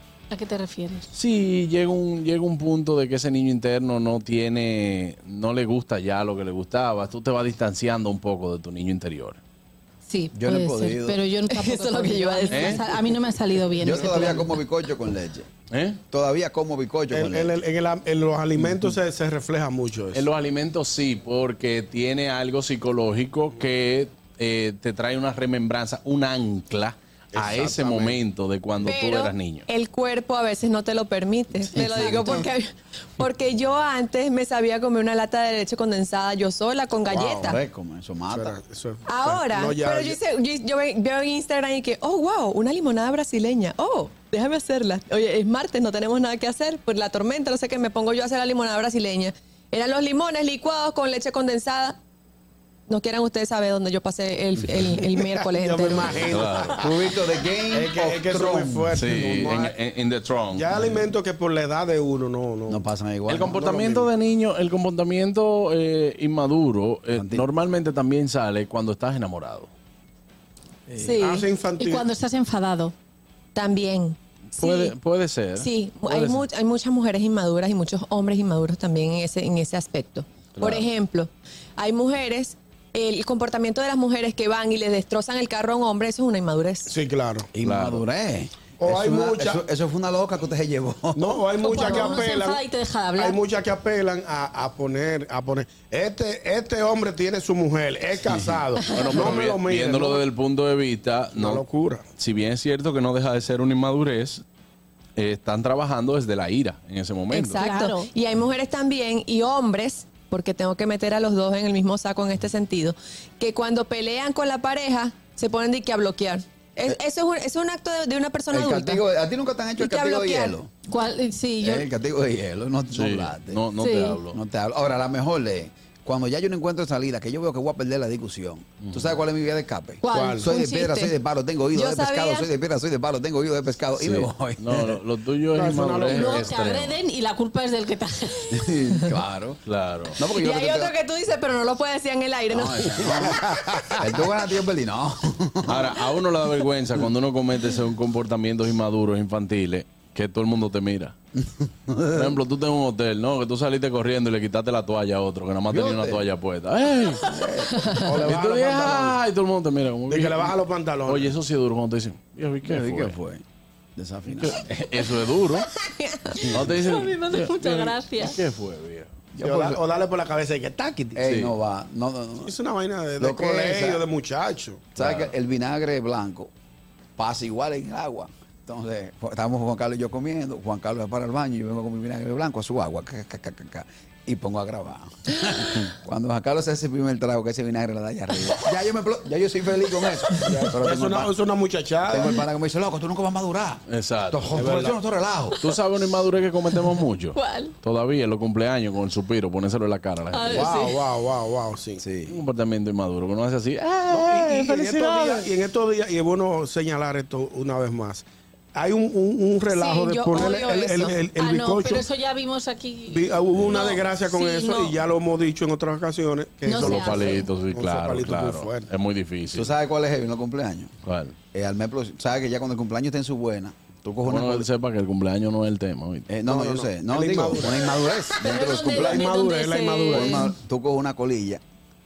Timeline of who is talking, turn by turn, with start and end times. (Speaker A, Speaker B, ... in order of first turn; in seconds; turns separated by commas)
Speaker A: 0.3-1.1, Speaker B: 1.1-9.4, Speaker A: 10.1-14.5, Speaker C: 10.3-11.2, Speaker D: 11.5-12.8, Speaker B: 12.5-12.8, Speaker C: 13.8-15.5, Speaker B: 15.7-16.0, Speaker C: 16.1-17.6, Speaker E: 17.1-20.3, Speaker B: 18.6-18.9, Speaker B: 20.1-29.7, Speaker E: 27.4-28.2, Speaker D: 28.8-37.6, Speaker C: 31.7-32.5, Speaker E: 37.1-37.5, Speaker C: 37.4-38.6, Speaker E: 38.3-40.2, Speaker D: 39.1-52.0, Speaker D: 52.9-56.3, Speaker C: 54.6-54.9, Speaker E: 55.5-56.9, Speaker B: 56.3-56.8, Speaker C: 56.8-59.2, Speaker E: 57.7-59.7, Speaker B: 59.0-60.8, Speaker E: 60.5-62.8, Speaker C: 62.7-63.8, Speaker B: 63.3-69.7, Speaker E: 63.5-64.0, Speaker C: 67.1-67.5, Speaker C: 70.9-71.2, Speaker A: 71.0-72.9, Speaker E: 71.2-72.1, Speaker D: 73.5-75.0, Speaker B: 74.6-75.7, Speaker D: 75.6-86.9, Speaker B: 80.6-80.9, Speaker E: 86.9-87.5, Speaker C: 87.5-91.4, Speaker B: 87.6-88.0, Speaker E: 88.8-89.6, Speaker E: 91.2-92.6, Speaker A: 91.6-93.4, Speaker D: 91.8-92.2, Speaker E: 93.2-100.2, Speaker C: 98.3-98.6, Speaker B: 98.9-101.6, Speaker E: 101.3-102.0, Speaker B: 102.2-104.4, Speaker B: 105.2-107.6, Speaker D: 107.3-119.0, Speaker A: 107.6-108.1, Speaker C: 118.5-120.7, Speaker D: 119.8-120.5, Speaker A: 120.9-121.9, Speaker C: 121.6-123.6, Speaker B: 122.9-124.4, Speaker A: 123.8-124.2, Speaker C: 124.3-134.9, Speaker B: 128.8-129.2, Speaker A: 130.0-130.6, Speaker E: 130.1-130.4, Speaker D: 130.4-131.1, Speaker D: 131.7-132.5, Speaker B: 134.0-137.0, Speaker E: 135.5-136.5, Speaker A: 136.1-138.5, Speaker C: 138.5-139.6, Speaker B: 139.7-140.2, Speaker C: 140.2-140.9, Speaker D: 140.4-143.4, Speaker C: 142.5-146.0, Speaker B: 145.7-151.1, Speaker C: 151.4-152.4, Speaker B: 152.2-157.3, Speaker C: 155.7-156.2, Speaker C: 157.2-157.8, Speaker E: 158.0-159.2, Speaker B: 158.2-160.5, Speaker E: 160.1-161.3, Speaker B: 161.1-163.2, Speaker C: 162.7-163.4, Speaker C: 164.0-164.6, Speaker B: 164.3-165.7, Speaker D: 165.9-166.4, Speaker C: 166.5-166.7, Speaker B: 166.5-169.1, Speaker A: 166.6-168.4, Speaker C: 169.3-169.8, Speaker E: 169.4-171.2, Speaker C: 171.2-172.5, Speaker B: 171.2-171.5, Speaker E: 172.4-174.9, Speaker C: 173.2-174.0, Speaker C: 174.9-176.5, Speaker B: 175.0-175.3, Speaker C: 177.2-191.3, Speaker E: 190.4-192.4, Speaker C: 192.1-195.6, Speaker B: 193.9-194.9, Speaker E: 194.6-194.9, Speaker B: 195.6-200.7, Speaker A: 197.4-197.7, Speaker A: 200.3-200.9, Speaker E: 200.6-202.0, Speaker C: 202.0-202.4, Speaker B: 202.3-205.5, Speaker E: 204.1-208.2, Speaker E: 208.8-212.0, Speaker D: 209.7-211.1, Speaker A: 211.4-214.9, Speaker E: 213.1-218.9, Speaker A: 216.7-217.4, Speaker B: 216.8-219.7, Speaker C: 219.6-220.9, Speaker B: 221.1-221.3, Speaker C: 221.5-224.7, Speaker B: 224.3-226.3, Speaker C: 226.3-229.3, Speaker E: 226.5-227.8, Speaker A: 228.4-230.5, Speaker E: 228.8-230.4, Speaker C: 230.1-231.6